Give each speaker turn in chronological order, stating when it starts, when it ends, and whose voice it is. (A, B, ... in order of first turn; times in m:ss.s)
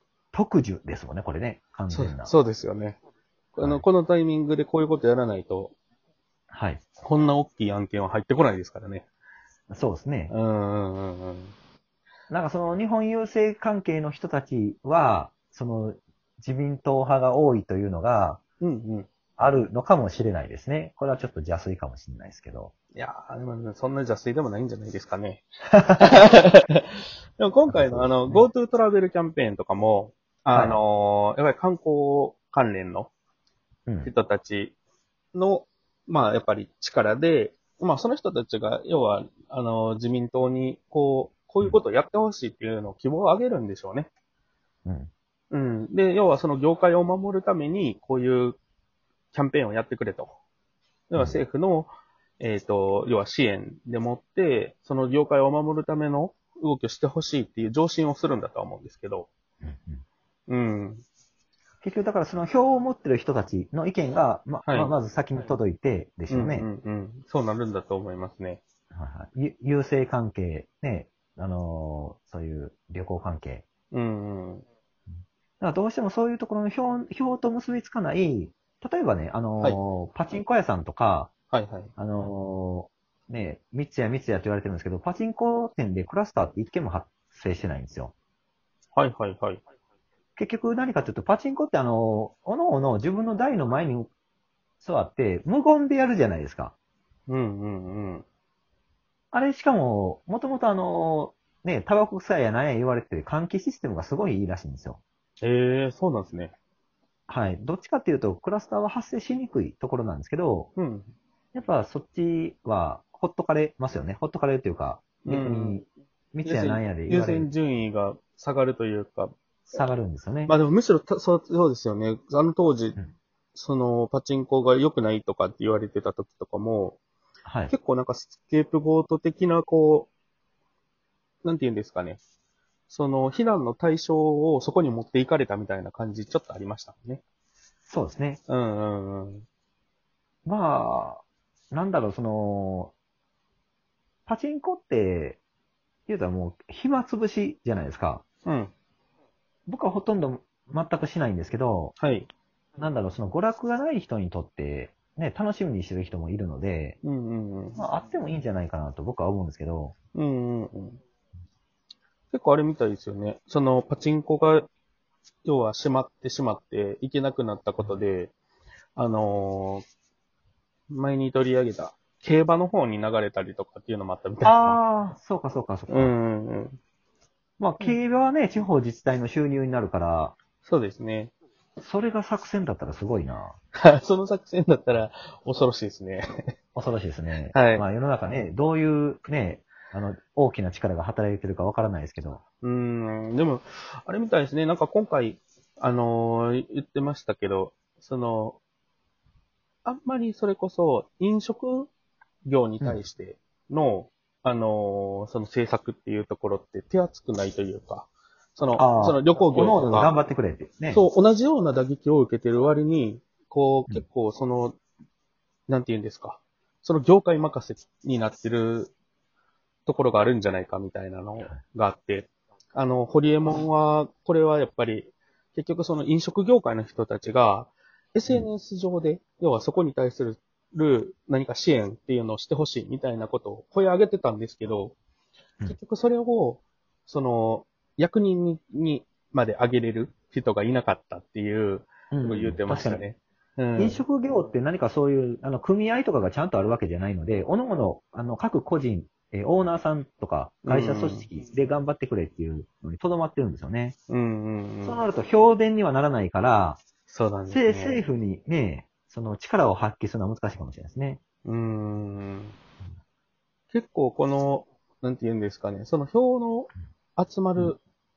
0:00.3-0:02.3 A
0:01.9-0:03.0 B
0:03.5-0:05.7 B
0:06.5-0:06.8 A
0:07.0-0:09.0 B
0:09.7-0:10.3 A
0:10.3-0:11.5 B
0:12.3-0:18.4 A
0:18.6-0:19.1 B
0:19.4-0:22.7 A
0:22.9-0:25.4 B
0:25.7-0:26.3 A
0:26.0-0:33.1 B
0:27.7-0:28.5 A
0:30.5-0:30.8 A
0:33.9-0:34.1 A
0:34.0-0:34.7 B
0:35.3-0:44.1 B
0:45.5-0:48.6 B
0:49.3-0:50.4 B
0:51.1-0:59.3 B
0:59.6-1:00.0 A
1:00.5-1:01.0 B
1:01.8-1:06.7 A
1:04.6-1:04.9 B
1:06.3-1:08.6 B
1:08.9-1:13.6 A
1:13.9-1:14.6 B
1:15.6-1:21.3 A
1:21.5-1:21.9 B
1:22.0-1:28.1 A
1:29.0-1:29.6 B
1:30.4-1:34.1 A
1:34.8-1:36.7 A
1:37.3-1:38.2 B
1:39.3-1:45.0 A
1:45.4-1:46.5 B
1:47.3-1:50.7 A
1:50.8-1:51.1 B
1:51.5-1:57.5 A
1:55.2-1:55.8 B
1:56.4-1:59.3 B
1:59.7-2:00.5 A
2:00.5-2:03.0 B
2:03.5-2:07.0 B
2:07.4-2:07.7 A
2:07.7-2:10.1 B
2:11.4-2:12.2 B
2:12.9-2:17.2 B
2:17.8-2:18.4 A
2:18.5-2:19.4 B
2:20.4-2:22.9 A
2:24.2-2:25.4 A
2:26.1-2:28.2 A
2:28.4-2:28.7 B
2:29.7-2:32.0 A
2:32.0-2:32.3 B
2:32.8-2:37.0 A
2:37.0-2:37.8 B
2:37.8-2:39.9 A
2:40.1-2:41.0 B
2:42.3-2:44.7 B
2:45.4-2:48.3 B
2:49.0-2:49.8 B
2:50.9-2:54.8 B
2:54.4-2:56.1 A
2:55.9-2:56.8 B
2:57.6-3:00.4 A
3:00.6-3:01.3 B
3:01.8-3:03.6 A
3:03.8-3:06.5 B
3:06.7-3:12.4 A
3:07.5-3:07.8 B
3:12.6-3:18.6 B
3:19.8-3:21.9 B
3:22.4-3:30.1 B
3:28.8-3:31.0 A
3:30.9-3:34.8 B
3:35.7-3:38.9 B
3:39.8-3:54.9 B
3:55.6-4:04.0 B
4:02.1-4:03.0 A
4:03.8-4:14.0 A
4:10.6-4:11.3 B
4:14.1-4:15.0 B
4:14.8-4:16.8 A
4:17.1-4:18.0 B
4:17.5-4:21.2 A
4:21.4-4:22.5 B
4:23.7-4:27.8 B